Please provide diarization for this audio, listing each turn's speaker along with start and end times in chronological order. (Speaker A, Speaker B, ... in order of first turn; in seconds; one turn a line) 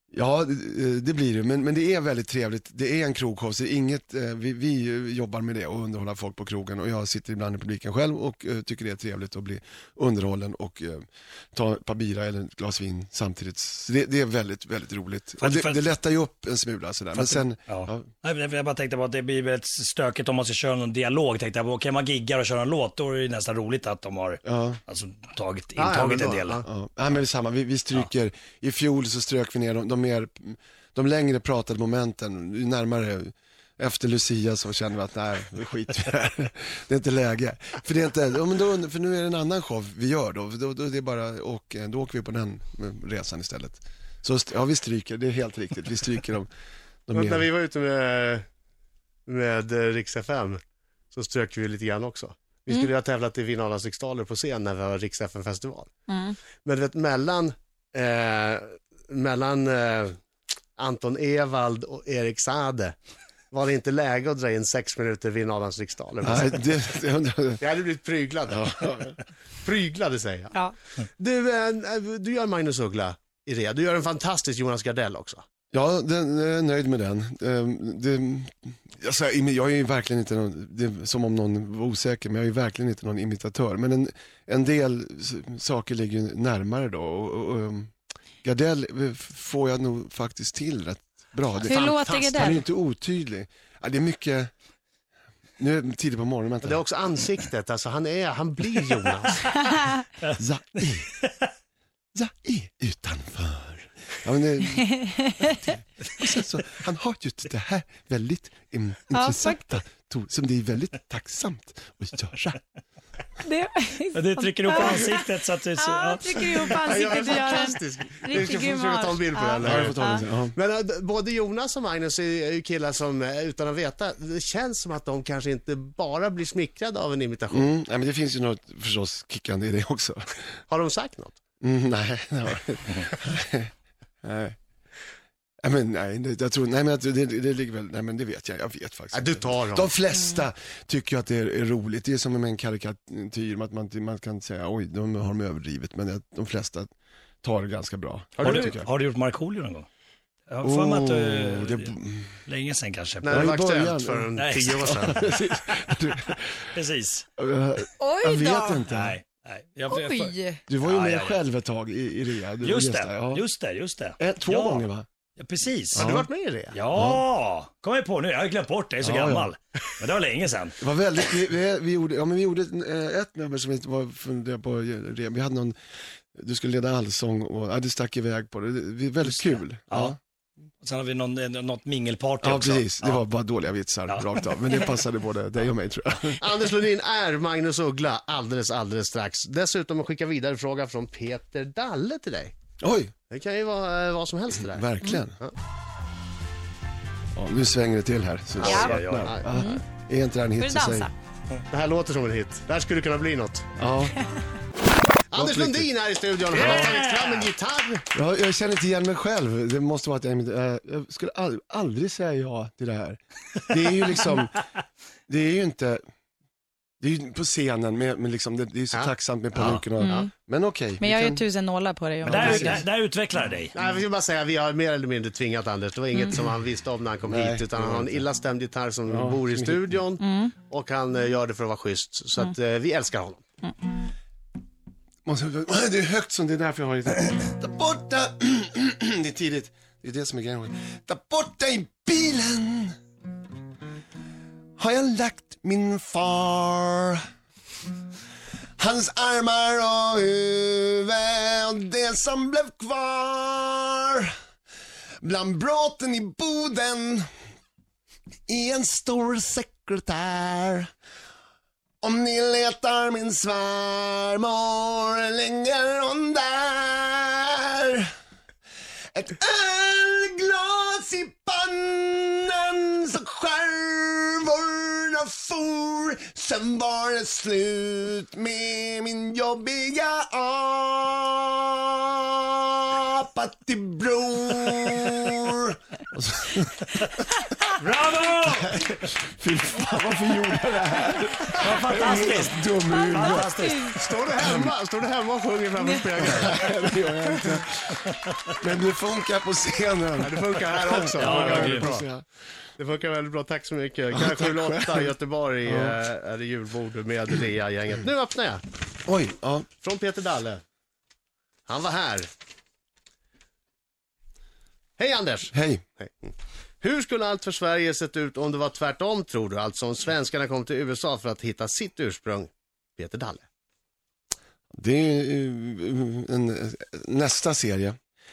Speaker A: 0.1-18.1
Speaker B: 15.4-15.8
Speaker B: 17.1-26.6
Speaker A: 24.4-24.8
Speaker C: 25.8-26.7
Speaker A: 26.6-46.5
Speaker A: 47.1-47.5
Speaker C: 47.1-48.4
Speaker C: 49.3-50.6
Speaker C: 51.1-55.9
Speaker C: 56.6-60.1
Speaker C: 60.8-62.9
Speaker C: 63.5-66.7
Speaker A: 66.2-67.6
Speaker C: 67.6-75.4
Speaker A: 68.5-69.1
Speaker A: 75.7-87.9
Speaker A: 88.4-94.5
Speaker C: 91.6-92.5
Speaker D: 91.8-92.4
Speaker A: 95.6-96.8
Speaker C: 96.6-99.6
Speaker A: 100.4-101.1
Speaker A: 102.2-112.6
Speaker D: 109.2-109.6
Speaker D: 113.4-115.3
Speaker B: 114.1-117.0
Speaker D: 115.8-120.2
Speaker C: 116.8-127.7
Speaker A: 119.6-120.6
Speaker A: 127.5-130.3
Speaker C: 130.7-131.4
Speaker A: 131.6-133.7
Speaker A: 134.2-134.6
Speaker A: 135.6-146.9
Speaker C: 139.1-139.9
Speaker A: 147.4-148.9
Speaker C: 148.4-148.7
Speaker B: 148.4-149.9
Speaker B: 150.5-151.9
Speaker A: 150.6-152.3
Speaker B: 152.5-153.5
Speaker C: 153.2-155.2
Speaker A: 153.3-156.7
Speaker B: 154.4-155.3
Speaker B: 156.7-157.2
Speaker A: 157.4-159.2
Speaker D: 158.0-158.8
Speaker B: 158.9-161.4
Speaker D: 159.9-160.6
Speaker A: 160.7-163.4
Speaker B: 162.6-164.9
Speaker A: 164.2-165.1
Speaker B: 165.4-166.1
Speaker A: 165.9-166.3
Speaker C: 165.9-166.8
Speaker B: 166.7-170.8
Speaker A: 166.9-167.2
Speaker A: 169.0-169.5
Speaker A: 170.8-175.8
Speaker A: 176.4-180.2
Speaker B: 179.2-180.2
Speaker B: 180.8-183.2
Speaker A: 182.4-186.4
Speaker C: 186.4-192.6
Speaker A: 192.8-193.1
Speaker C: 193.3-195.5
Speaker A: 194.7-195.4
Speaker A: 197.4-201.1
Speaker C: 198.6-199.5
Speaker B: 198.6-199.3
Speaker D: 200.6-201.1
Speaker C: 201.7-203.7
Speaker A: 203.8-204.2
Speaker C: 205.3-208.1
Speaker A: 205.3-205.9
Speaker B: 206.5-207.5
Speaker A: 206.6-206.9
Speaker A: 208.2-214.6
Speaker A: 215.3-216.0
Speaker A: 217.0-221.4
Speaker C: 218.9-220.3
Speaker D: 221.0-222.7
Speaker A: 222.2-222.8
Speaker B: 222.3-223.8
Speaker C: 223.7-233.4
Speaker A: 227.2-228.2
Speaker A: 229.1-229.9
Speaker D: 230.2-230.5
Speaker A: 235.2-242.9
Speaker A: 244.8-247.2
Speaker A: 248.8-254.3
Speaker A: 255.2-257.3
Speaker A: 258.5-260.9
Speaker A: 262.0-268.1
Speaker A: 269.1-287.0
Speaker B: 287.8-288.8
Speaker A: 288.6-293.7
Speaker B: 291.6-294.1
Speaker D: 293.2-293.8
Speaker C: 293.9-296.6
Speaker A: 296.2-298.0
Speaker A: 298.6-302.2
Speaker C: 300.2-302.1
Speaker B: 301.1-302.0
Speaker C: 302.8-308.6
Speaker A: 304.1-305.1
Speaker A: 305.7-306.0
Speaker A: 309.1-309.7
Speaker C: 309.8-310.6
Speaker C: 311.7-312.3
Speaker C: 315.0-323.5
Speaker A: 315.5-315.8
Speaker A: 324.7-328.0